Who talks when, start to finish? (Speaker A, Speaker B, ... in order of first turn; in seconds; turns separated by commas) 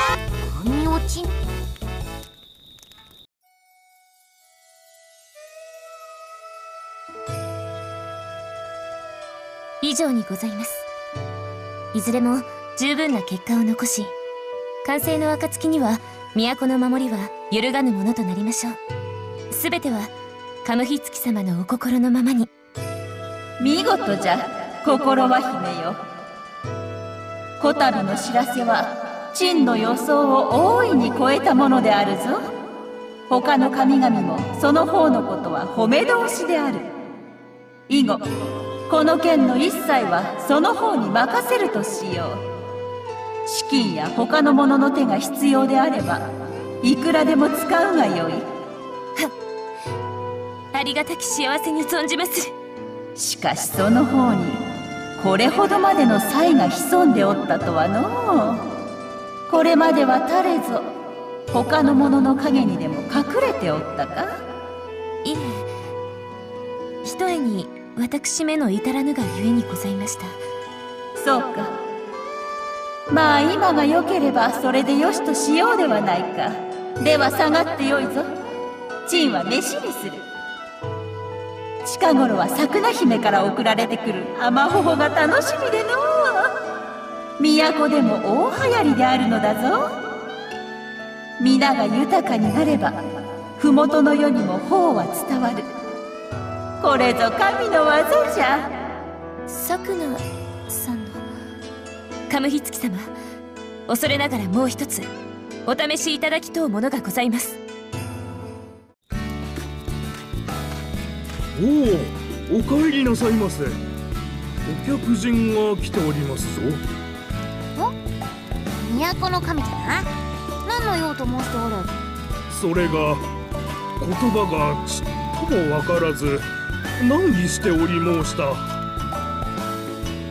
Speaker A: 0.4-1.3, Speaker B: 9.8-10.9, Speaker B: 11.9-14.1, Speaker B: 14.8-18.8, Speaker B: 19.5-20.1, Speaker B: 20.6-22.5, Speaker C: 23.6-26.0, Speaker C: 27.6-32.5, Speaker C: 33.3-36.9, Speaker C: 37.9-38.3, Speaker C: 38.9-42.4, Speaker C: 43.5-46.3, Speaker C: 46.8-48.5, Speaker B: 50.7-52.5, Speaker C: 53.2-54.6, Speaker C: 55.2-58.6, Speaker C: 59.5-60.9, Speaker C: 61.5-64.4, Speaker B: 65.2-65.7, Speaker B: 67.0-70.4, Speaker C: 71.2-71.8, Speaker C: 73.1-78.3, Speaker C: 79.0-80.2, Speaker C: 81.8-86.5, Speaker C: 87.4-90.0, Speaker C: 91.4-93.0, Speaker C: 93.6-95.7, Speaker C: 96.8-98.7, Speaker B: 99.5-101.2, Speaker B: 102.3-103.2, Speaker B: 103.9-105.1, Speaker B: 105.7-107.6, Speaker D: 111.5-113.8, Speaker D: 114.7-116.8, Speaker A: 118.8-120.1, Speaker A: 120.7-121.9, Speaker D: 122.5-123.3, Speaker D: 124.0-128.7